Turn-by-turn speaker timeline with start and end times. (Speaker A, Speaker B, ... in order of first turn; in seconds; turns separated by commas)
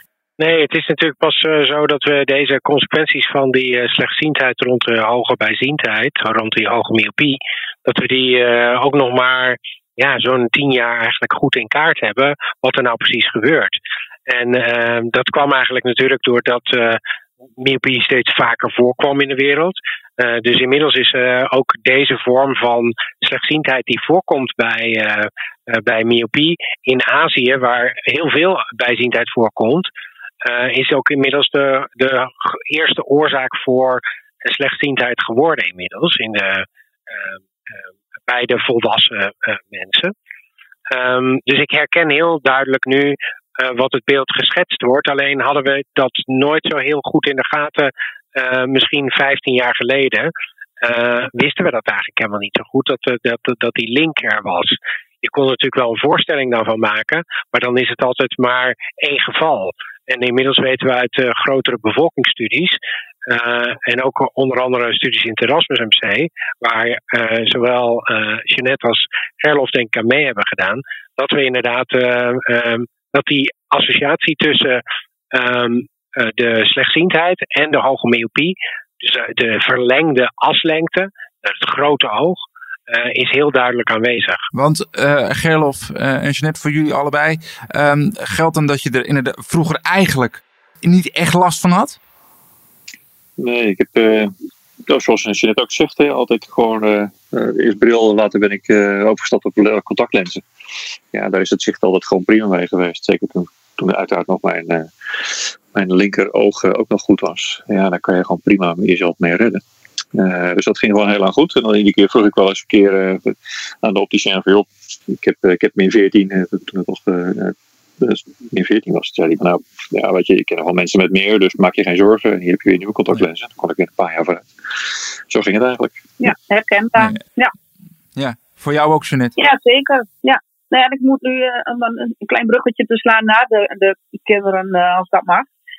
Speaker A: 0.4-17.0, Speaker A: 17.6-29.9, Speaker A: 30.4-37.4, Speaker A: 38.3-40.1, Speaker A: 40.9-50.3, Speaker A: 50.8-84.5, Speaker B: 84.5-92.0, Speaker C: 93.4-94.3, Speaker C: 94.9-100.4, Speaker C: 101.1-109.6, Speaker C: 110.1-124.5, Speaker C: 125.3-126.1, Speaker D: 126.2-127.5, Speaker B: 128.2-129.3, Speaker D: 129.4-135.5